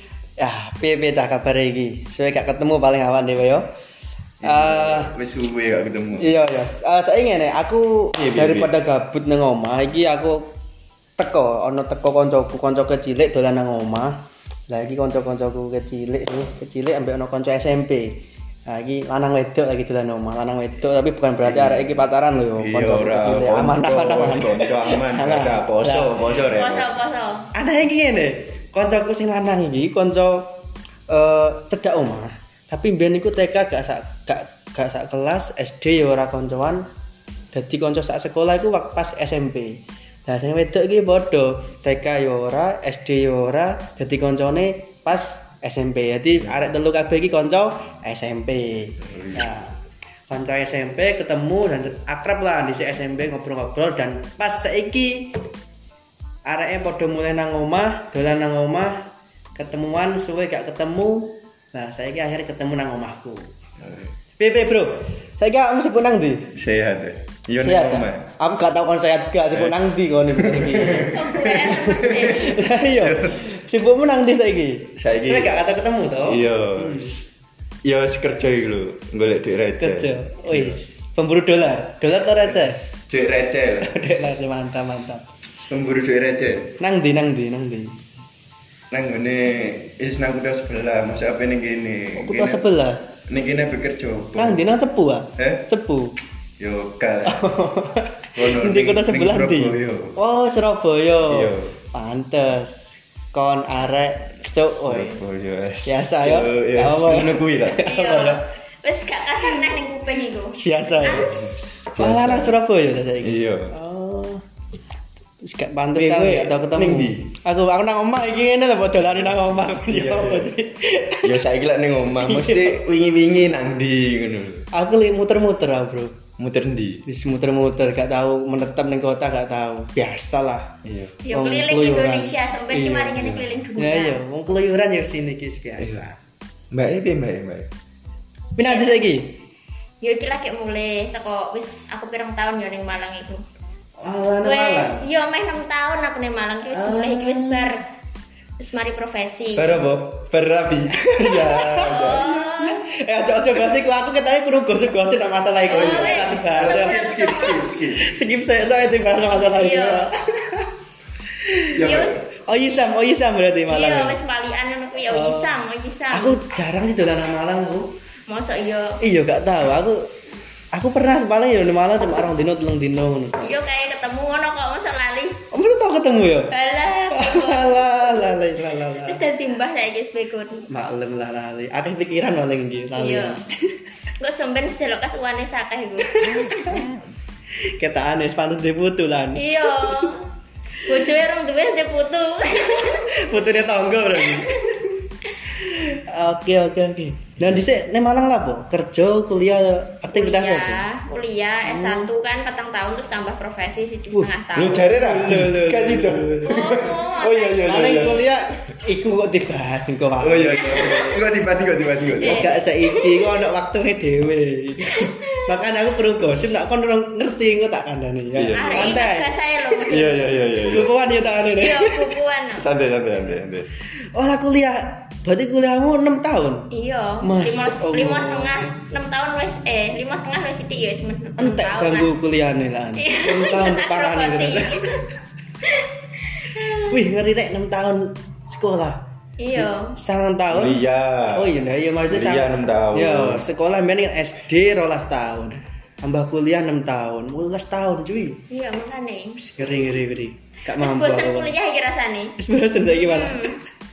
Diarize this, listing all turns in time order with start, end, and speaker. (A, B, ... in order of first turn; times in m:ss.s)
0:00.4-0:03.7 A
0:04.4-0:06.3 B
0:04.4-0:05.1 A
0:06.2-0:10.5 A
0:08.1-0:08.7 B
0:11.2-0:26.2 A
0:21.4-0:21.9 B
0:22.6-0:27.0 B
0:26.5-0:27.5 C
0:27.5-0:30.5 A
0:31.1-0:36.9 A
0:37.5-0:49.7 A
0:49.0-0:49.5 B
0:50.3-0:55.4 A
0:56.4-1:03.5 A
1:03.8-1:04.1 B
1:04.4-1:06.5 A
1:06.5-1:08.3 B
1:07.6-1:17.1 A
1:10.3-1:13.4 B
1:11.1-1:12.6 C
1:14.9-1:15.6 B
1:16.2-1:17.2 B
1:17.8-1:20.8 B
1:19.8-1:22.8 A
1:22.5-1:23.9 B
1:23.8-1:25.3 A
1:25.6-1:26.8 B
1:26.8-1:28.0 A
1:28.9-1:32.6 B
1:32.2-1:33.0 A
1:33.3-1:34.6 B
1:34.4-1:36.2 A
1:35.4-1:35.6 B
1:36.6-1:37.5 B
1:37.3-1:45.2 A
1:38.4-1:40.2 B
1:41.3-1:41.8 B
1:44.7-1:47.9 B
1:45.9-1:48.4 A
1:47.8-1:51.3 C
1:50.6-1:51.4 A
1:51.1-1:52.6 B
1:52.0-1:54.4 A
1:53.2-1:53.7 B
1:55.4-2:01.4 A
1:56.0-1:57.3 B
1:59.8-2:00.5 B
2:01.2-2:04.7 B
2:02.2-2:02.8 A
2:04.7-2:06.2 A
2:06.4-2:07.0 B
2:07.1-2:10.7 A
2:10.8-2:11.2 B
2:11.2-2:14.2 C
2:11.3-2:16.2 A
2:15.8-2:16.1 B
2:16.7-2:17.7 B
2:18.6-2:19.4 A
2:18.6-2:19.0 C
2:20.0-2:23.4 C
2:24.0-2:25.0 A
2:24.4-2:27.8 C
2:26.7-2:27.7 A
2:28.6-2:29.8 C
2:29.6-2:32.4 B
2:31.1-2:40.7 A
2:31.8-2:32.8 C
2:35.7-2:37.7 C
2:35.7-2:38.1 B
2:39.4-2:40.1 C
2:41.7-2:42.2 B
2:41.8-2:42.2 C
2:42.4-2:44.2 A
2:43.7-2:46.4 C
2:45.1-2:45.6 A
2:46.1-2:47.9 A
2:48.3-2:49.0 C
2:49.0-2:50.1 A
2:50.7-2:53.6 A
2:53.4-2:55.4 C
2:55.5-2:56.5 A
2:56.5-2:58.2 C
2:57.1-2:59.2 A
2:59.0-3:00.7 C
3:00.7-3:03.5 A
3:03.0-3:03.4 C
3:04.2-3:06.4 C
3:06.1-3:06.9 A
3:07.8-3:10.1 A
3:09.4-3:10.3 C
3:10.8-3:14.6 C
3:12.6-3:15.0 A
3:15.6-3:20.9 A
3:20.1-3:24.9 C
3:21.7-3:22.1 A
3:24.5-3:28.3 B
3:24.9-3:26.6 A
3:26.4-3:28.3 C
3:27.6-3:31.1 A
3:30.2-3:32.5 B
3:30.6-3:31.0 C
3:32.2-3:33.3 C
3:32.2-3:39.3 A
3:34.9-3:35.4 C
3:38.4-3:39.0 B
3:38.5-3:40.3 C
3:39.8-3:40.9 B
3:40.7-3:42.1 A
3:41.6-3:42.7 C
3:42.6-3:43.7 B
3:44.1-3:46.7 A
3:46.7-3:52.1 C
3:47.2-3:48.7 A
3:51.4-3:55.0 A
3:53.0-3:55.0 C
3:56.4-3:56.8 C
3:56.6-3:59.0 A
3:59.4-3:59.9 C
3:59.6-4:08.4 A
4:00.5-4:01.5 B
4:02.1-4:03.4 B
4:08.5-4:09.4 C
4:09.4-4:11.5 A
4:10.8-4:12.3 C
4:12.4-4:13.6 A
4:12.9-4:13.6 C